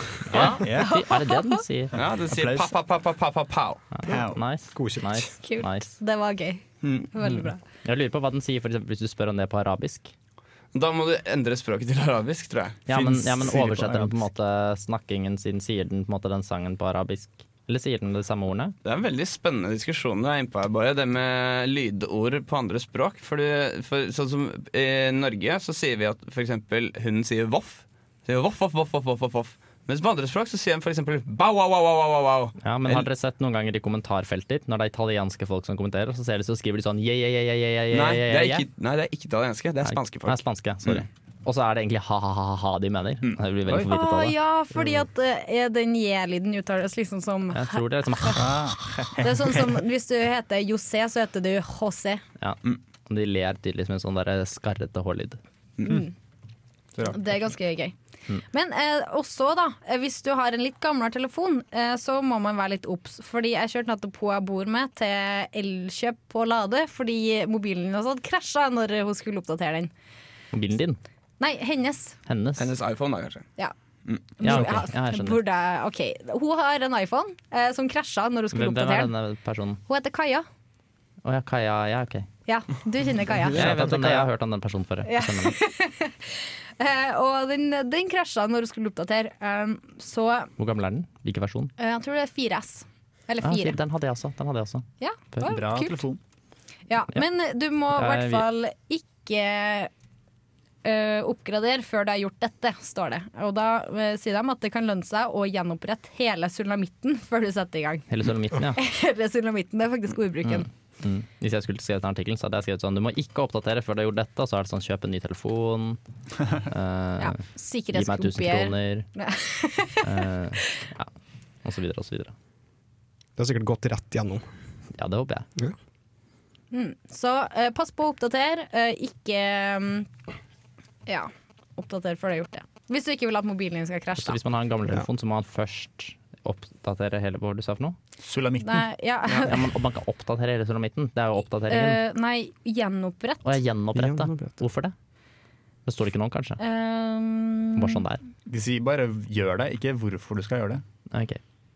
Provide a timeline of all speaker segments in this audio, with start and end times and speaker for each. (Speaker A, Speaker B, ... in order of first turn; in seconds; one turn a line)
Speaker A: 0.3-1.0
Speaker B: 0.3-2.0
Speaker C: 0.3-1.6
Speaker D: 1.9-3.9
Speaker A: 2.3-2.7
Speaker B: 3.9-5.9
Speaker A: 4.1-4.4
Speaker E: 4.7-5.3
Speaker C: 5.4-7.6
Speaker D: 6.8-7.1
Speaker B: 7.8-10.1
Speaker D: 10.7-12.8
Speaker B: 12.9-18.8
Speaker A: 12.9-14.2
Speaker D: 18.9-33.1
Speaker B: 32.6-38.6
Speaker D: 37.9-41.0
Speaker B: 39.9-44.4
Speaker C: 43.9-48.5
Speaker B: 47.5-48.6
Speaker A: 48.4-49.8
Speaker C: 49.1-52.2
Speaker B: 52.4-55.4
Speaker C: 55.9-56.1
Speaker A: 57.0-57.4
Speaker C: 57.1-57.9
Speaker C: 58.5-69.9
Speaker B: 70.5-71.0
Speaker C: 71.4-72.2
Speaker B: 72.3-72.7
Speaker D: 72.6-73.5
Speaker C: 74.4-79.1
Speaker B: 74.4-75.4
Speaker B: 78.5-79.8
Speaker C: 79.9-80.5
Speaker B: 81.2-82.3
Speaker C: 82.5-83.6
Speaker A: 83.5-84.2
Speaker B: 83.5-85.6
Speaker C: 85.0-90.5
Speaker B: 90.6-91.7
Speaker C: 91.8-93.8
Speaker B: 93.4-95.5
Speaker C: 95.0-96.0
Speaker A: 95.4-96.2
Speaker C: 96.9-99.9
Speaker B: 97.9-98.5
Speaker C: 100.8-108.1
Speaker B: 108.1-108.8
Speaker C: 108.8-110.7
Speaker B: 110.4-116.0
Speaker B: 116.6-119.1
Speaker C: 117.2-120.1
Speaker B: 120.0-121.1
Speaker B: 121.6-122.3
Speaker E: 123.4-124.5
Speaker B: 125.0-125.5
Speaker C: 126.7-130.1
Speaker C: 131.1-134.4
Speaker B: 134.2-138.0
Speaker A: 138.2-138.9
Speaker C: 138.6-139.7
Speaker B: 139.4-142.0
Speaker C: 141.7-143.6
Speaker B: 143.4-144.9
Speaker E: 143.9-144.6
Speaker B: 145.9-146.6
Speaker C: 146.6-148.0
Speaker B: 147.8-148.2
Speaker A: 148.5-150.8
Speaker B: 151.1-151.4